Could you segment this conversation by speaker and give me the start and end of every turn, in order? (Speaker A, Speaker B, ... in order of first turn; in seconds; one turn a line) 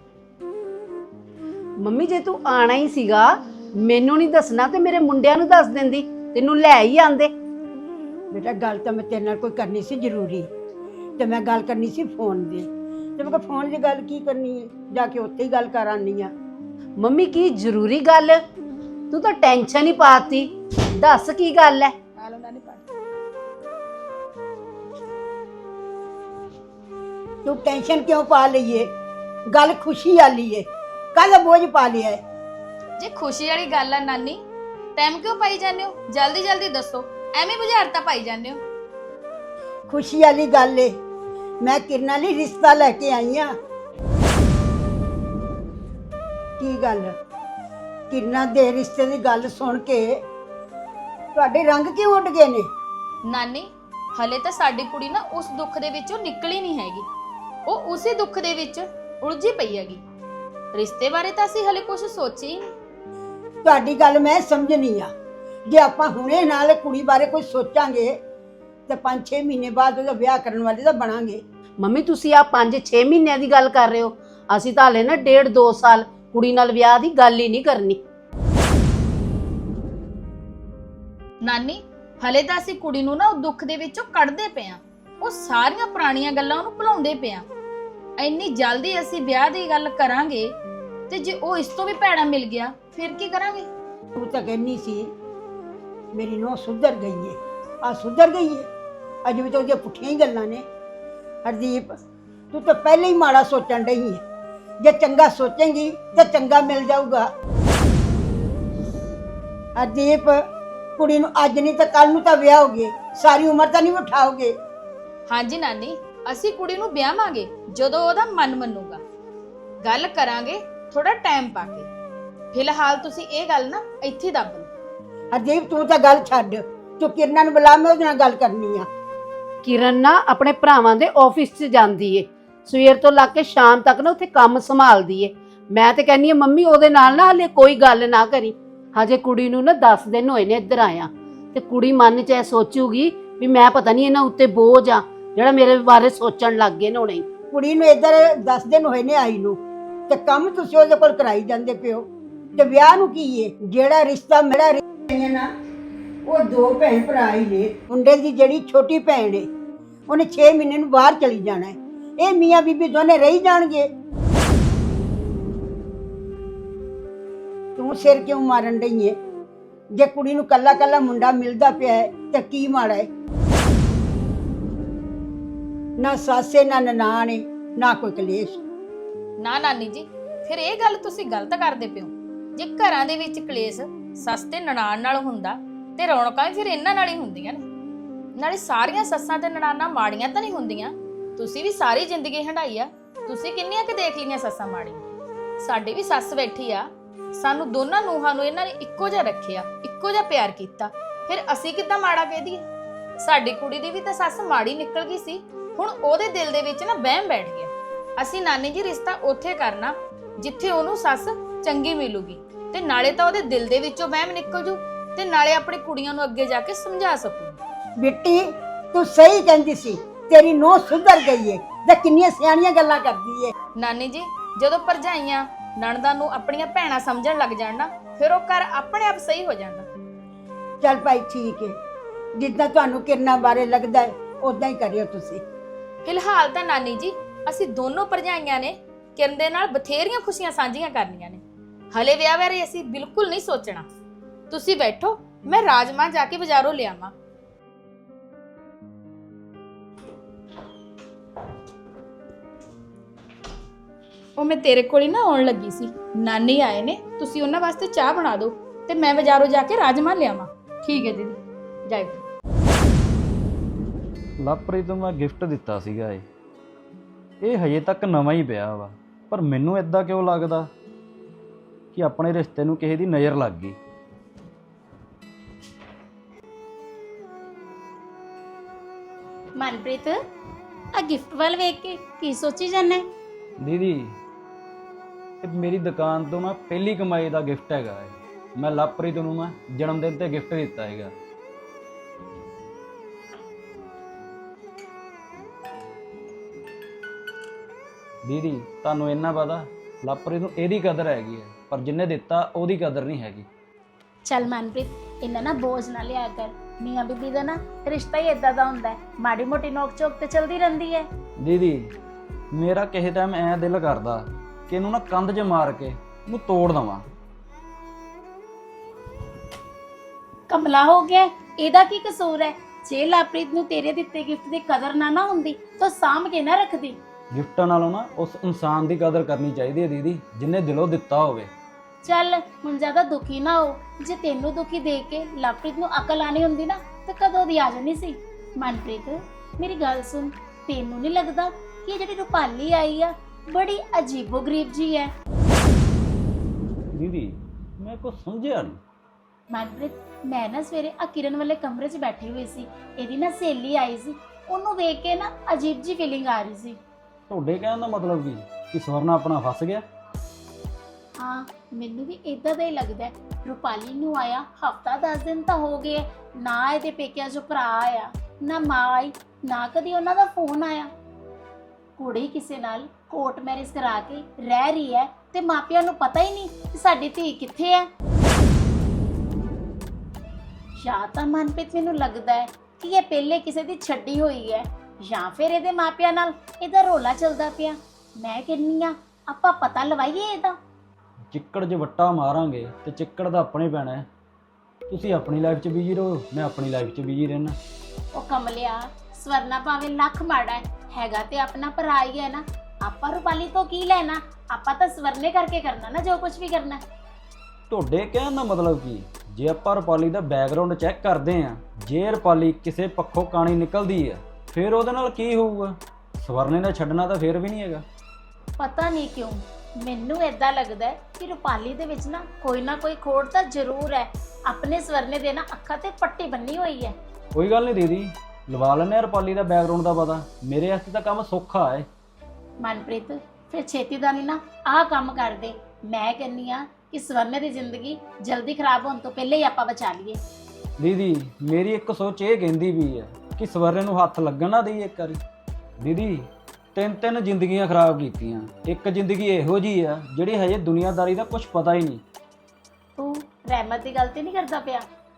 Speaker A: 1.8-7.3
Speaker B: 8.3-10.5
Speaker B: 11.2-16.3
Speaker A: 17.0-18.4
Speaker A: 19.1-21.9
Speaker C: 22.2-22.8
Speaker B: 27.4-28.9
Speaker B: 29.5-32.2
Speaker C: 33.0-34.4
Speaker C: 35.0-38.6
Speaker B: 39.9-40.9
Speaker B: 41.6-43.5
Speaker B: 46.6-47.1
Speaker B: 48.1-50.2
Speaker B: 51.4-52.7
Speaker C: 53.3-57.1
Speaker C: 57.7-60.0
Speaker C: 60.7-62.6
Speaker B: 63.6-65.1
Speaker B: 65.7-68.1
Speaker B: 68.9-71.4
Speaker A: 71.8-78.0
Speaker C: 81.4-87.5
Speaker C: 88.2-90.5
Speaker C: 91.1-93.7
Speaker B: 94.2-95.1
Speaker B: 96.2-98.7
Speaker B: 99.3-100.6
Speaker B: 101.5-101.9
Speaker B: 102.5-104.2
Speaker B: 104.8-107.3
Speaker B: 109.8-110.4
Speaker B: 111.0-114.5
Speaker C: 115.3-119.0
Speaker C: 119.8-121.9
Speaker C: 122.5-124.7
Speaker B: 125.3-128.9
Speaker A: 129.6-147.4
Speaker B: 147.4-155.5
Speaker B: 156.3-159.5
Speaker B: 160.1-163.9
Speaker B: 167.8-169.2
Speaker B: 170.0-173.1
Speaker B: 176.0-178.6
Speaker C: 179.4-187.6
Speaker C: 188.4-195.0
Speaker C: 195.6-202.6
Speaker C: 203.2-217.6
Speaker B: 218.0-223.5
Speaker C: 223.8-229.9
Speaker B: 230.8-231.8
Speaker B: 232.4-235.4
Speaker C: 236.1-243.9
Speaker C: 244.5-247.1
Speaker C: 254.4-262.2
Speaker D: 264.4-266.2
Speaker D: 267.4-270.7
Speaker D: 271.9-273.8
Speaker E: 279.6-280.1
Speaker E: 280.9-283.0
Speaker D: 283.6-284.1
Speaker D: 285.4-291.1
Speaker D: 298.2-303.5
Speaker E: 304.2-311.1
Speaker D: 311.4-311.9
Speaker D: 312.6-317.1
Speaker E: 320.5-327.0
Speaker D: 327.3-331.5
Speaker E: 332.0-345.1
Speaker D: 346.9-348.8
Speaker E: 349.5-356.8
Speaker D: 357.3-359.8
Speaker E: 361.2-370.9
Speaker E: 372.0-377.9
Speaker E: 380.8-390.6
Speaker D: 391.3-394.1
Speaker D: 394.9-397.6
Speaker E: 398.2-406.8
Speaker D: 407.7-417.8
Speaker E: 418.6-426.9
Speaker D: 427.4-431.9
Speaker E: 432.6-440.2
Speaker D: 440.8-445.2
Speaker D: 445.8-452.0
Speaker E: 453.0-454.9